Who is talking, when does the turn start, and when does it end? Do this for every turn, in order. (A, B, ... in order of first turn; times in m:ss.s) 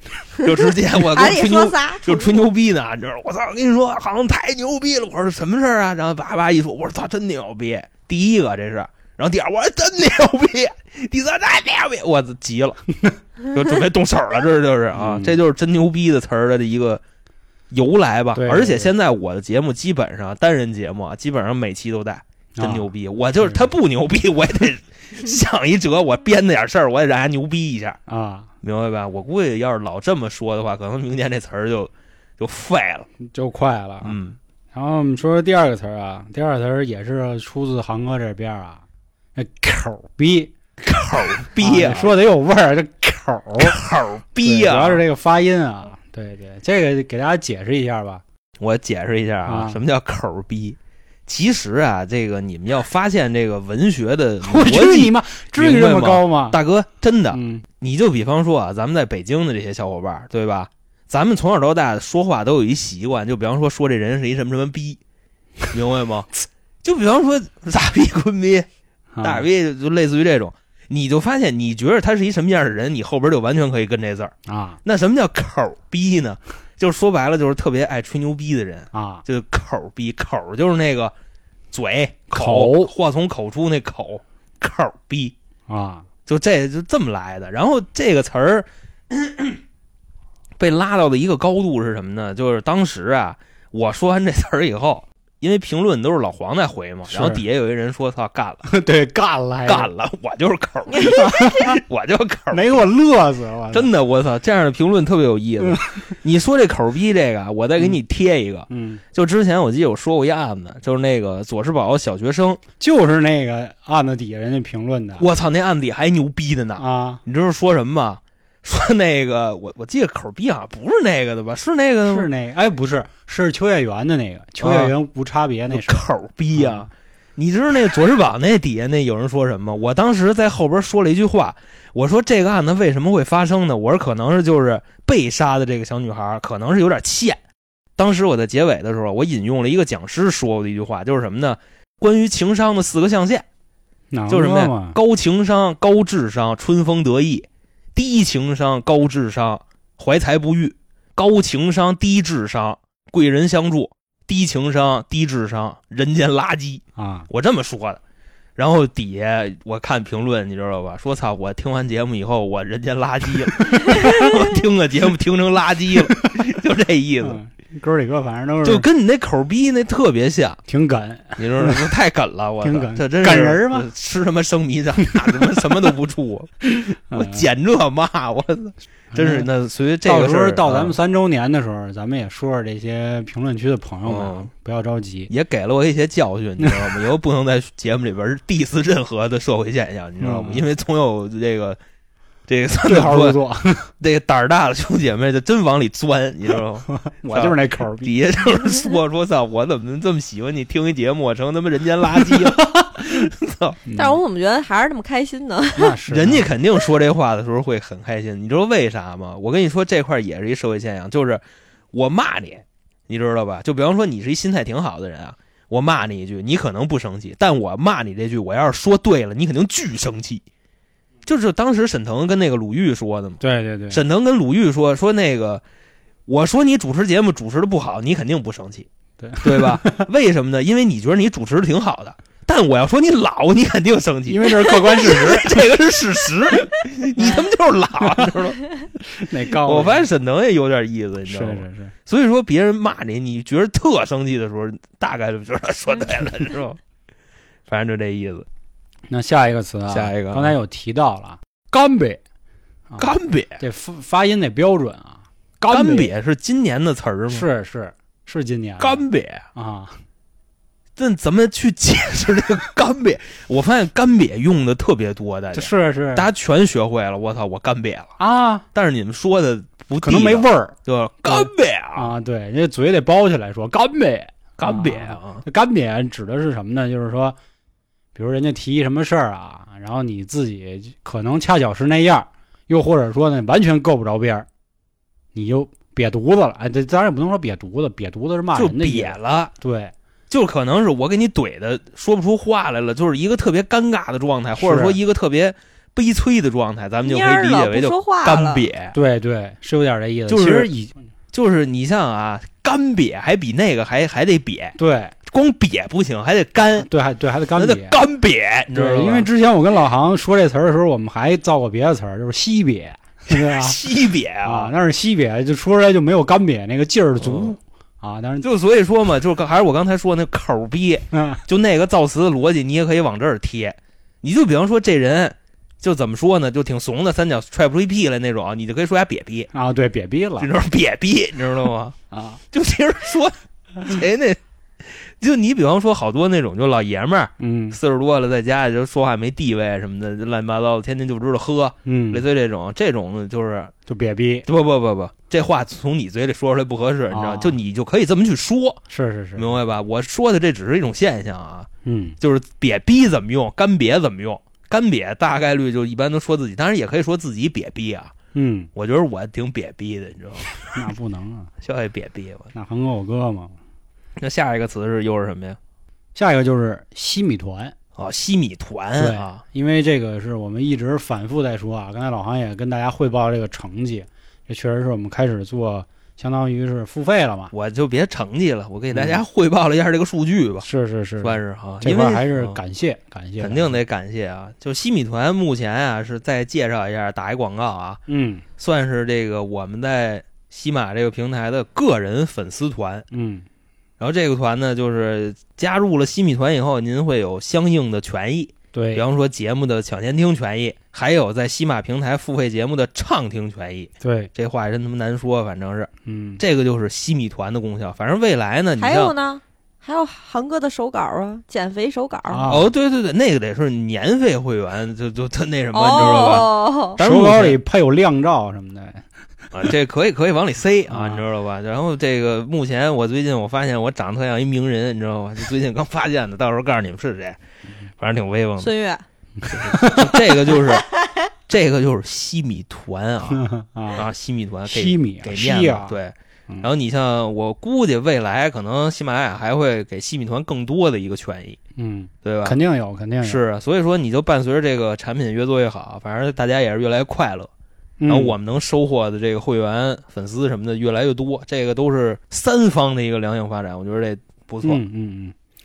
0:00.4-0:12.8 A
0:00.4-0:02.4 B
0:13.4-0:17.0 A
0:14.9-0:15.4 C
0:17.7-0:28.0 A
0:18.3-0:18.9 C
0:22.6-0:22.9 C
0:23.4-0:23.6 C
0:28.1-0:28.5 C
0:28.6-0:33.1 A
0:33.2-0:34.2 C
0:34.0-0:34.4 A
0:34.7-0:38.8 C
0:39.4-0:40.5 C
0:40.8-0:42.1 A
0:41.6-0:43.8 C
0:43.6-0:45.0 A
0:44.4-0:48.2 C
0:48.6-1:05.0 A
0:49.4-0:49.8 C
0:54.4-0:56.6 C
0:57.3-0:57.6 C
1:05.7-1:06.3 A
1:06.8-1:08.7 A
1:09.1-1:09.5 C
1:09.2-1:14.3 A
1:14.4-1:14.8 C
1:14.8-1:21.1 A
1:18.9-1:19.2 C
1:21.7-1:25.3 A
1:22.3-1:22.9 C
1:25.7-1:26.0 C
1:26.2-1:29.6 A
1:30.6-1:38.6 A
1:37.1-1:37.4 C
1:38.6-1:39.9 C
1:39.6-1:42.8 A
1:41.0-1:41.8 C
1:42.5-1:43.9 C
1:43.7-1:52.6 A
1:45.6-1:45.9 C
1:48.7-1:49.0 C
1:52.8-1:55.2 C
1:55.2-2:02.3 A
1:56.8-1:57.2 C
2:02.1-2:06.9 C
2:04.6-2:04.9 A
2:05.7-2:17.4 A
2:18.0-2:23.4 A
2:24.1-2:25.0 C
2:24.3-2:38.0 A
2:37.0-2:37.3 C
2:38.6-2:47.4 A
2:43.7-2:44.3 C
2:46.0-2:46.5 C
2:47.2-2:48.9 C
2:48.6-2:50.6 A
2:50.7-2:51.9 C
2:51.4-3:01.0 A
2:52.6-2:53.9 C
2:55.0-2:55.8 C
2:57.1-2:57.4 C
2:59.1-2:59.5 C
3:00.0-3:05.3 C
3:04.0-3:04.5 A
3:05.3-3:11.8 A
3:06.6-3:06.9 C
3:10.2-3:10.6 C
3:12.5-3:13.4 A
3:12.8-3:13.9 C
3:14.0-3:23.8 A
3:16.9-3:18.1 C
3:22.2-3:23.3 C
3:23.8-3:24.2 C
3:23.9-3:26.0 B
3:25.8-3:26.5 C
3:26.1-3:31.4 A
3:31.9-3:40.4 A
3:41.2-3:45.6 A
3:43.4-3:44.0 C
3:46.3-3:48.9 A
3:49.2-3:50.1 C
3:49.4-3:58.7 A
3:54.2-3:55.6 C
3:58.0-3:58.3 C
3:59.0-4:00.0 C
3:59.6-4:06.8 A
4:01.3-4:01.9 C
4:07.7-4:08.4 A
4:09.1-4:12.2 C
4:09.9-4:10.6 A
4:12.9-4:16.1 C
4:13.0-4:13.6 A
4:15.7-4:17.5 A
4:17.3-4:19.0 C
4:18.8-4:19.4 A
4:19.5-4:20.0 C
4:21.0-4:28.1 A
4:25.5-4:26.3 C
4:28.2-4:28.6 C
4:28.7-4:32.1 A
4:30.0-4:37.4 C
4:34.6-4:35.4 A
4:38.1-4:44.5 C
4:45.3-4:49.9 C
4:48.5-4:49.5 A
4:50.3-4:59.0 A
4:54.6-4:55.0 C
4:57.0-4:58.6 B
4:58.9-5:00.9 C
5:00.3-5:00.7 A
5:01.3-5:06.9 A
5:04.8-5:05.1 C
5:06.8-5:08.0 C
5:07.5-5:09.3 A
5:08.7-5:13.8 C
5:13.3-5:14.7 A
5:14.4-5:18.5 C
5:17.2-5:17.5 A
5:18.4-5:29.5 A
5:21.1-5:21.4 C
5:29.5-5:30.5 C
5:30.4-5:32.0 A
5:32.1-5:32.4 C
5:32.5-5:43.7 A
5:37.4-5:37.8 C
5:41.8-5:42.2 C
5:43.9-5:44.4 C
5:44.5-5:48.8 A
5:47.1-5:47.6 C
5:48.9-5:49.6 C
5:49.4-5:51.7 A
5:51.8-5:52.2 C
5:52.2-5:58.1 A
5:58.3-5:58.7 C
5:58.7-6:00.9 A
6:00.7-6:01.5 C
6:01.6-6:02.5 A
6:02.5-6:03.5 C
6:04.2-6:05.6 A
6:06.1-6:07.7 C
6:08.0-6:09.4 A
6:09.0-6:17.5 C
6:17.5-6:20.6 A
6:18.9-6:19.2 C
6:20.6-6:23.8 C
6:21.2-6:22.6 A
6:23.4-6:28.0 A
6:28.1-6:28.4 C
6:28.6-6:33.1 A
6:33.1-6:33.4 C
6:34.0-6:49.1 A
6:38.7-6:39.0 C
6:44.0-6:44.3 C
6:46.0-6:46.4 C
6:48.8-6:52.5 B
6:52.3-6:52.7 C
6:52.5-6:57.6 A
6:55.7-6:57.0 B
6:56.0-6:59.0 C
6:59.5-7:07.4 A
7:00.9-7:01.2 C
7:08.0-7:08.7 A
7:08.6-7:09.0 B
7:09.4-7:10.5 C
7:09.5-7:10.9 A
7:11.5-7:21.6 A
7:13.3-7:14.0 C
7:14.7-7:16.0 C
7:21.8-7:23.4 C
7:22.2-7:22.6 A
7:23.2-7:27.5 A
7:28.0-7:28.3 C
7:28.1-7:34.8 A
7:34.6-7:35.3 C